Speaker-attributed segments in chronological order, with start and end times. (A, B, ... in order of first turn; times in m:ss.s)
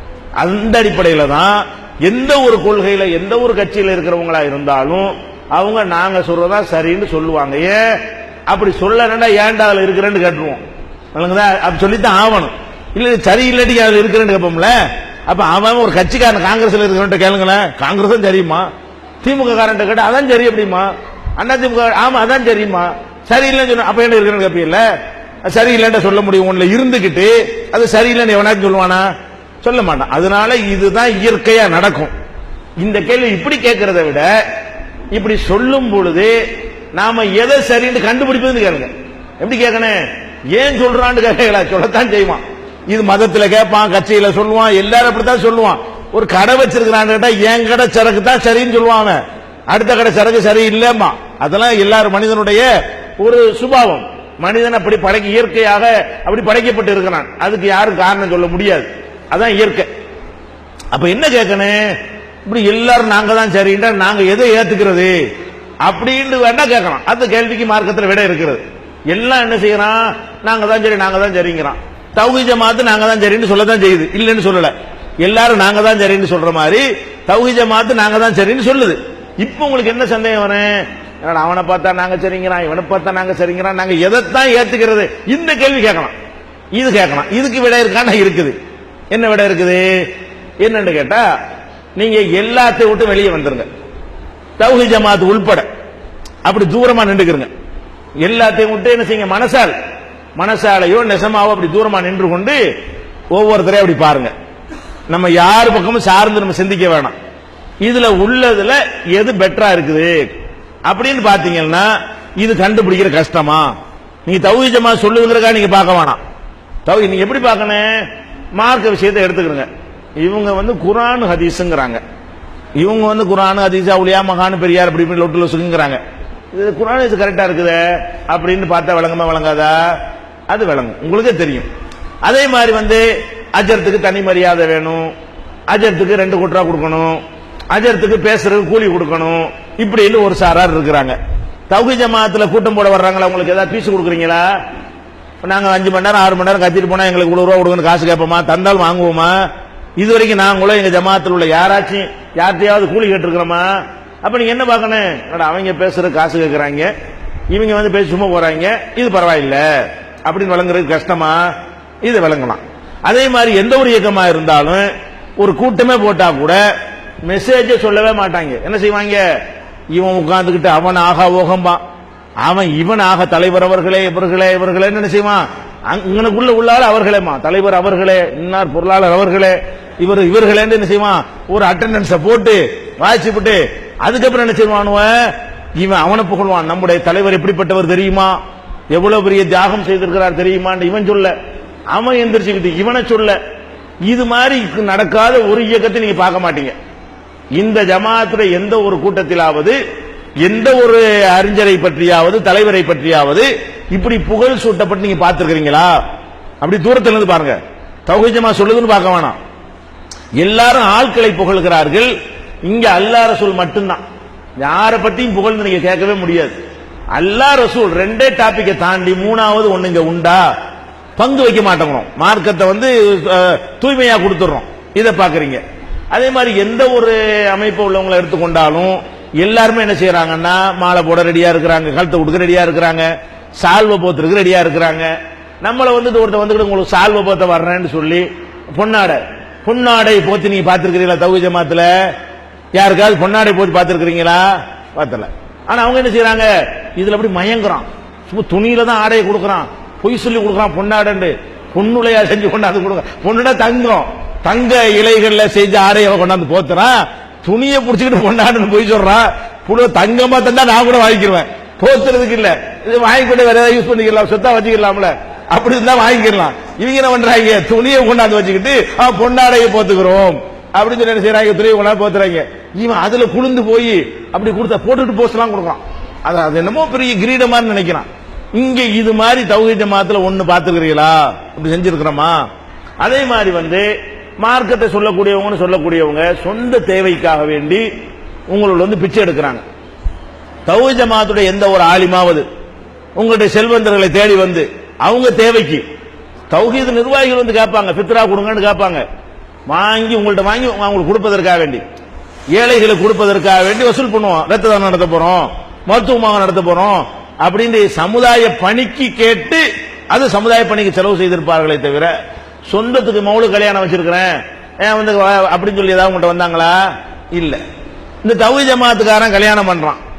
0:00.4-0:07.8 A
0:08.5-0:10.6 A
0:11.1-0:14.7 A
0:15.3-0:18.7 A
0:19.2-0:24.8 A
0:25.4-0:29.1 A
0:29.6-0:32.1 A
0:32.8-0:34.3 A
0:35.1-0:36.3 A
0:36.9-0:40.0 A
0:40.5-0:52.6 A
0:53.2-0:59.9 A
1:00.9-1:01.8 A
1:02.5-1:05.1 A
1:05.8-1:26.1 A
1:26.7-1:28.6 A
1:29.1-1:29.8 A
1:30.6-1:31.2 A
1:32.0-1:33.7 A
1:34.6-1:35.7 A
1:36.4-1:37.5 A
1:38.2-1:39.7 A
1:40.4-1:42.6 A
1:43.3-1:44.3 A
1:45.1-1:47.1 A
1:47.8-1:50.3 A
1:50.9-1:51.9 A
1:52.4-1:53.7 A
1:54.3-1:56.2 A
1:56.8-1:58.0 A
1:58.6-1:59.7 A
2:00.2-2:02.0 A
2:02.8-2:06.0 A
2:06.5-2:09.7 A
2:10.5-2:11.7 A
2:12.2-2:15.1 A
2:15.7-2:21.2 A
2:21.7-2:24.4 A
2:25.4-2:29.4 A
2:30.0-2:36.9 A
2:37.5-2:41.4 A
2:42.0-2:46.6 A
2:47.2-2:49.2 A
2:49.9-2:51.8 A
2:52.4-3:08.4 A
3:08.9-3:11.3 A
3:11.9-3:13.4 A
3:14.0-3:16.7 A
3:17.6-3:19.8 A
3:20.4-3:25.9 A
3:26.6-3:29.4 A
3:30.4-3:32.1 A
3:32.6-3:34.0 A
3:34.6-3:36.6 A
3:37.2-3:40.4 A
3:41.2-3:45.6 A
3:46.1-3:53.1 A
3:53.6-3:55.1 A
3:55.6-4:01.9 A
4:02.8-4:42.4 A
4:43.0-4:43.9 A
4:44.4-4:47.8 A
4:48.5-4:49.6 A
4:50.7-4:52.4 A
4:53.2-4:55.8 A
4:56.5-4:59.0 A
4:59.7-5:01.8 A
5:02.5-5:12.1 A
5:12.7-5:16.8 A
5:17.3-5:17.6 A
5:18.2-5:20.0 A